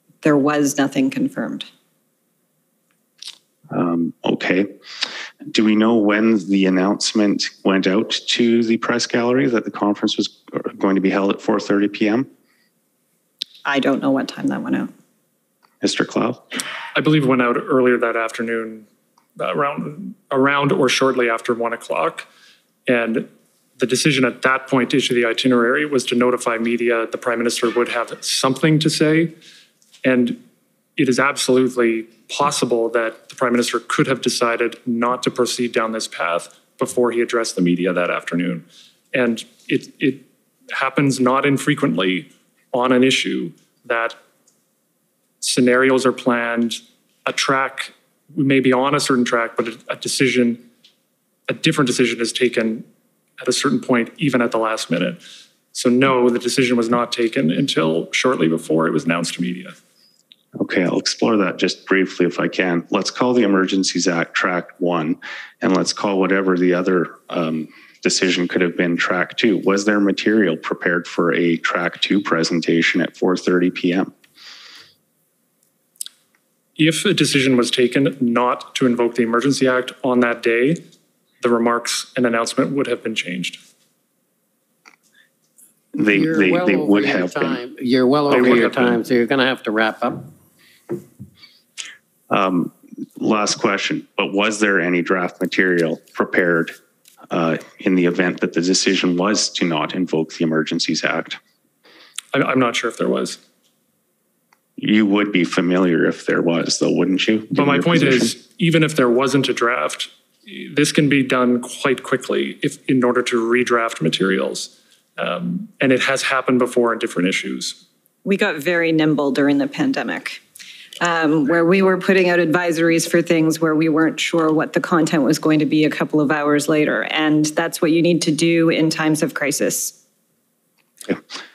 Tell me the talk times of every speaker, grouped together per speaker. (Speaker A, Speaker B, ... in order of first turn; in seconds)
Speaker A: 0.2-1.7, 13.7-14.9, 118.2-120.4, 121.0-129.9
Speaker B: 3.7-4.7, 5.5-12.3, 15.8-16.4, 60.6-74.1, 85.9-87.6, 88.3-88.6, 92.3-96.7, 97.3-101.4, 104.8-108.3
Speaker C: 16.9-18.9, 19.4-22.3, 22.9-29.3, 30.0-30.4, 31.0-44.2, 45.4-50.6, 51.5-52.9, 53.4-55.2, 55.7-59.8, 76.8-80.8, 81.4-83.6, 88.3-89.0, 102.3-103.4, 107.5-117.8
Speaker D: 86.1-90.3